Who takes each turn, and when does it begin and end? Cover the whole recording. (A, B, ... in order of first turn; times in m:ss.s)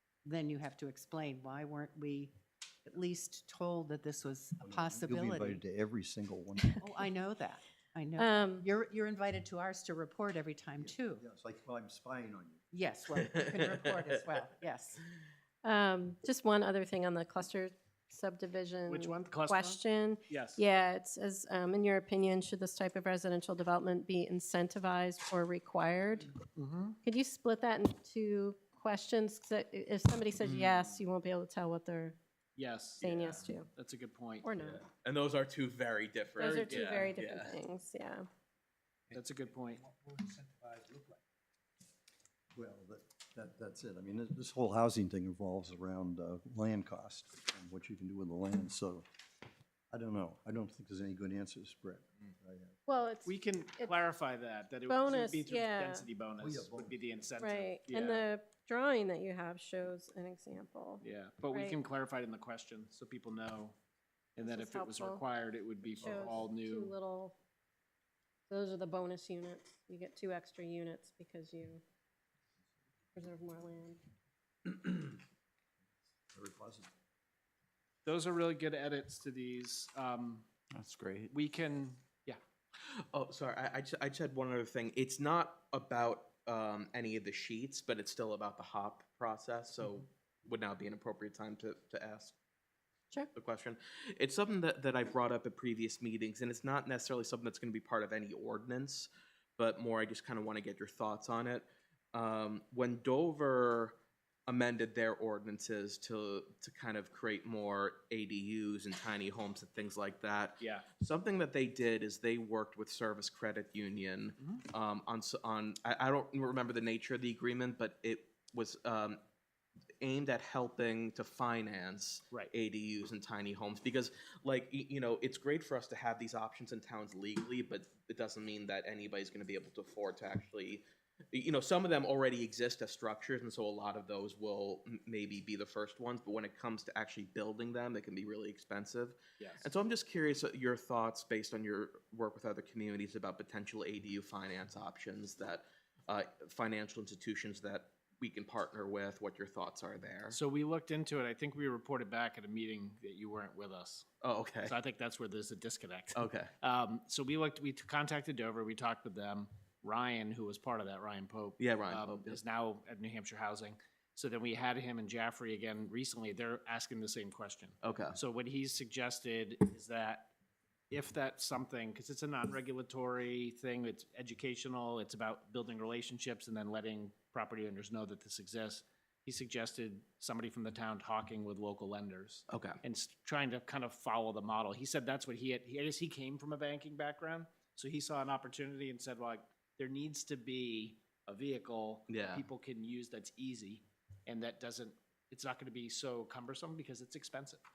0:00.2-0:02.3 A
0:02.8-0:05.6 A
0:04.6-0:06.8 B
0:06.8-0:11.2 A
0:08.2-0:08.6 C
0:10.8-0:12.6 B
0:12.7-0:15.1 A
0:15.6-0:26.4 C
0:18.9-0:20.6 D
0:26.5-0:27.0 D
0:27.0-0:32.2 C
0:30.4-0:30.9 E
0:32.6-0:34.5 D
0:33.0-0:33.7 C
0:34.4-0:34.8 C
0:34.6-0:37.6 E
0:36.4-0:38.2 C
0:36.6-0:37.1 D
0:39.1-0:39.8 D
0:40.0-0:40.7 B
0:42.5-0:49.1 B
0:49.9-0:52.8 B
0:52.9-0:53.9 C
0:53.2-0:58.2 D
0:54.9-0:56.0 C
0:56.4-0:57.3 B
0:57.4-1:01.8 C
1:01.0-1:03.8 D
1:04.4-1:06.9 D
1:04.4-1:05.2 C
1:06.0-1:07.4 C
1:06.0-1:06.3 B
1:08.5-1:11.8 C
1:13.1-1:14.0 C
1:16.3-1:16.9 B
1:18.0-1:20.4 D
1:20.8-1:21.3 E
1:21.3-1:22.4 D
1:23.1-1:32.3 E
1:33.3-1:44.0 E
1:44.5-1:59.2 E
1:50.6-1:50.9 D
2:00.0-2:30.4 E
2:19.4-2:19.7 D
2:30.3-2:34.0 D
2:34.2-2:34.7 E
2:34.6-2:50.3 D
2:36.1-2:36.5 E
2:41.6-2:42.4 E
2:47.8-2:48.2 E
2:50.9-3:17.6 D
3:02.5-3:02.8 E
3:12.1-3:12.4 E